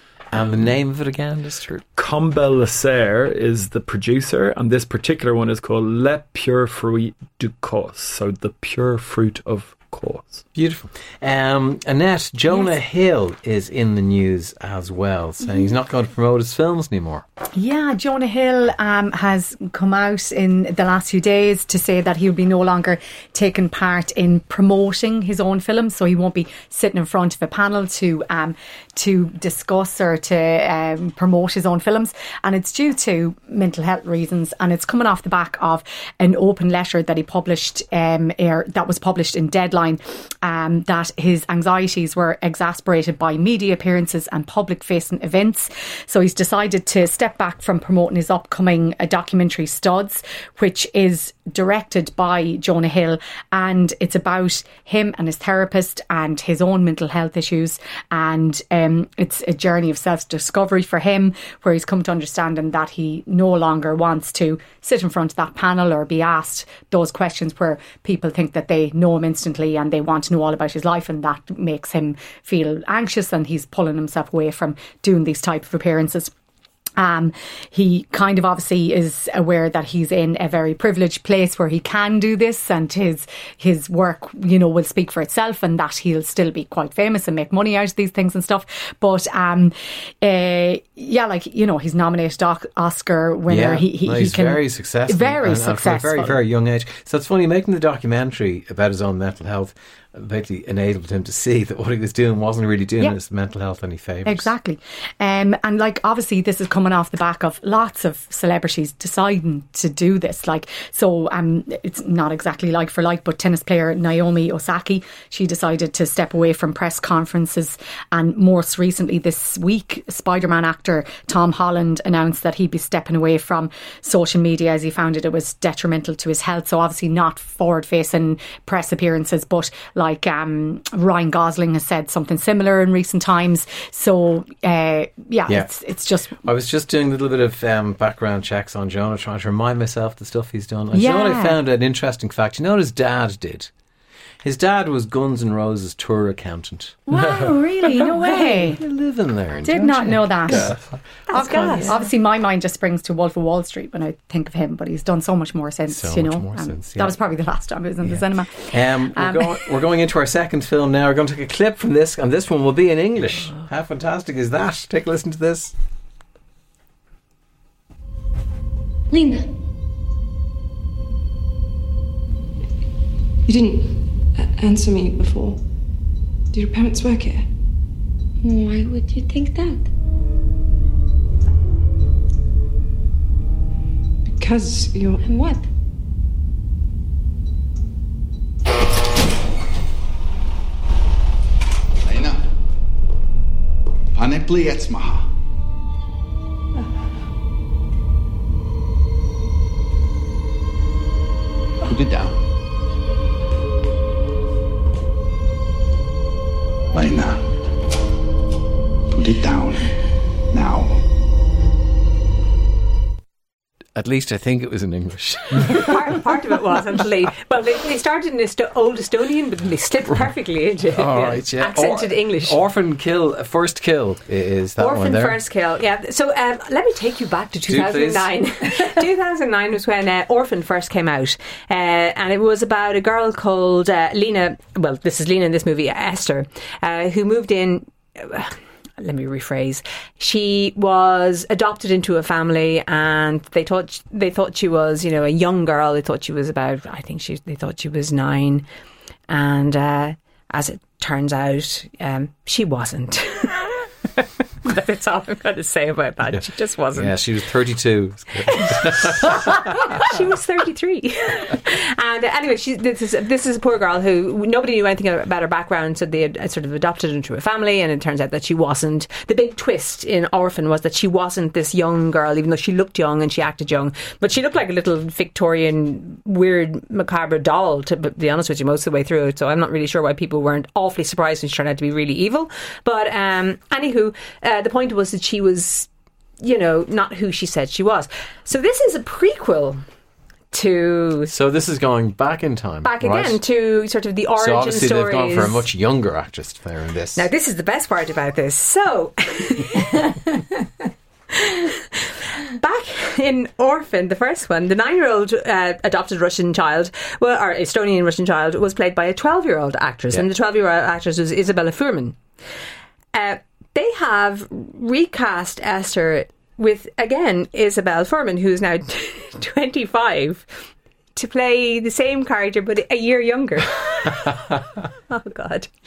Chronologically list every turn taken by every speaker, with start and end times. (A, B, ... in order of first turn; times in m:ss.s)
0:00.3-0:01.8 A
0:00.4-0:00.6 B
0:01.9-0:10.4 B
0:10.5-0:17.2 A
0:17.5-1:16.3 C
1:17.0-1:36.4 C
1:33.5-1:44.5 A
1:44.2-2:16.4 C
2:16.4-2:23.7 A
2:20.9-2:21.6 C
2:24.4-2:27.0 A
2:27.1-2:28.8 C
2:27.8-2:32.0 A
2:29.6-2:30.7 C
2:30.5-2:30.8 B
2:31.3-2:32.0 D
2:31.3-2:39.7 C
2:35.9-2:37.2 A
2:38.0-2:45.7 A
2:49.1-2:49.5 E
2:53.4-2:55.7 F
2:56.5-2:57.5 F
2:58.4-2:59.9 E
3:04.2-3:05.2 F
3:05.2-3:05.6 E
3:12.0-3:12.4 G
3:14.1-3:15.3 G
3:21.8-3:22.4 G
3:26.9-3:27.4 G
3:29.1-3:29.9 G
3:30.5-3:31.0 G
3:33.9-3:36.2 A
3:35.7-3:42.6 D
3:40.9-3:45.4 A
3:44.8-4:08.6 D
3:47.7-3:48.3 A
4:09.3-4:17.2 D
4:16.9-4:19.4 A
4:18.5-4:45.9 D
4:46.4-4:49.8 D
4:50.5-4:51.3 D
4:51.3-4:53.4 A
4:52.8-4:55.6 D
4:54.4-4:57.2 A
4:57.2-5:12.2 D
5:13.1-5:20.5 D
5:21.2-5:24.3 D
5:24.1-5:24.6 A
5:25.1-5:25.7 D